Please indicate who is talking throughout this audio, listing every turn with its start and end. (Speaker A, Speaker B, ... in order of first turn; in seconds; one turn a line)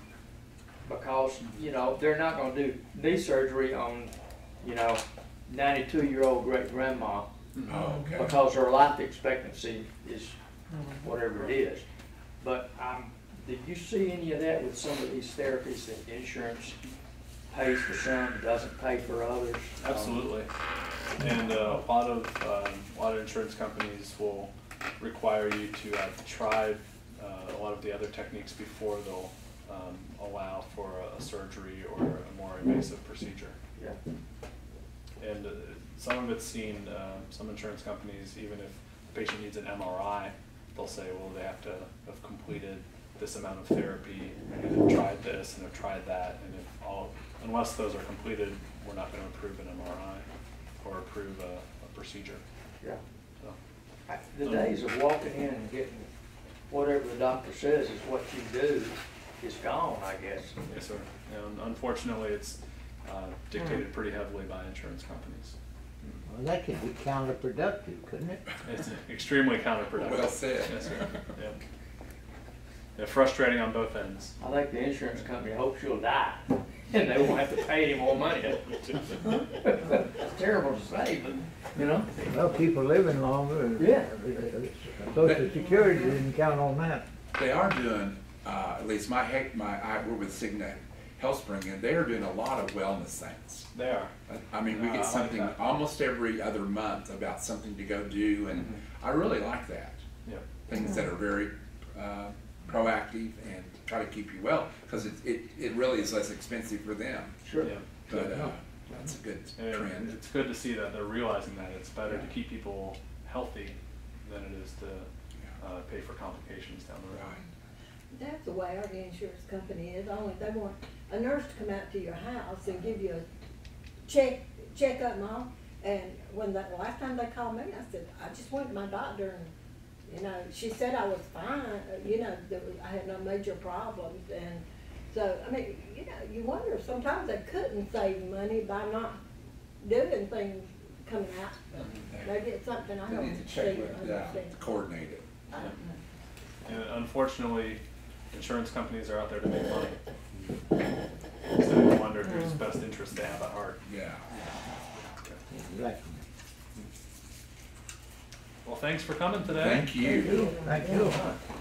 Speaker A: 0.8-7.3
Speaker B: 7.5-7.9
Speaker C: 7.7-8.4
Speaker A: 8.2-10.4
Speaker A: 11.0-11.8
Speaker A: 12.4-16.8
Speaker A: 17.5-20.3
Speaker B: 19.8-20.5
Speaker B: 21.2-33.6
Speaker B: 35.2-50.3
Speaker B: 50.8-52.4
Speaker A: 54.1-56.1
Speaker B: 54.4-54.7
Speaker A: 56.7-60.6
Speaker B: 60.7-66.2
Speaker D: 66.3-68.4
Speaker B: 68.7-71.6
Speaker C: 69.9-71.2
Speaker B: 73.0-74.4
Speaker A: 74.4-82.1
Speaker D: 82.3-87.0
Speaker A: 83.8-84.1
Speaker C: 85.2-85.6
Speaker C: 87.3-93.7
Speaker B: 93.7-94.1
Speaker C: 94.3-100.0
Speaker B: 94.7-95.6
Speaker C: 100.7-107.4
Speaker A: 107.5-107.7
Speaker B: 107.6-107.9
Speaker C: 108.1-110.2
Speaker B: 109.6-117.3
Speaker C: 112.0-112.3
Speaker C: 117.1-117.4
Speaker E: 118.1-123.2
Speaker E: 124.1-129.5
Speaker E: 130.1-139.2
Speaker E: 139.8-144.6
Speaker B: 141.8-142.1
Speaker C: 142.1-142.5
Speaker C: 143.0-145.3
Speaker E: 145.5-146.0
Speaker B: 146.7-150.0
Speaker B: 151.6-155.4
Speaker C: 153.8-154.3
Speaker D: 155.5-156.2
Speaker B: 158.7-159.9
Speaker C: 159.6-160.5
Speaker D: 160.1-161.2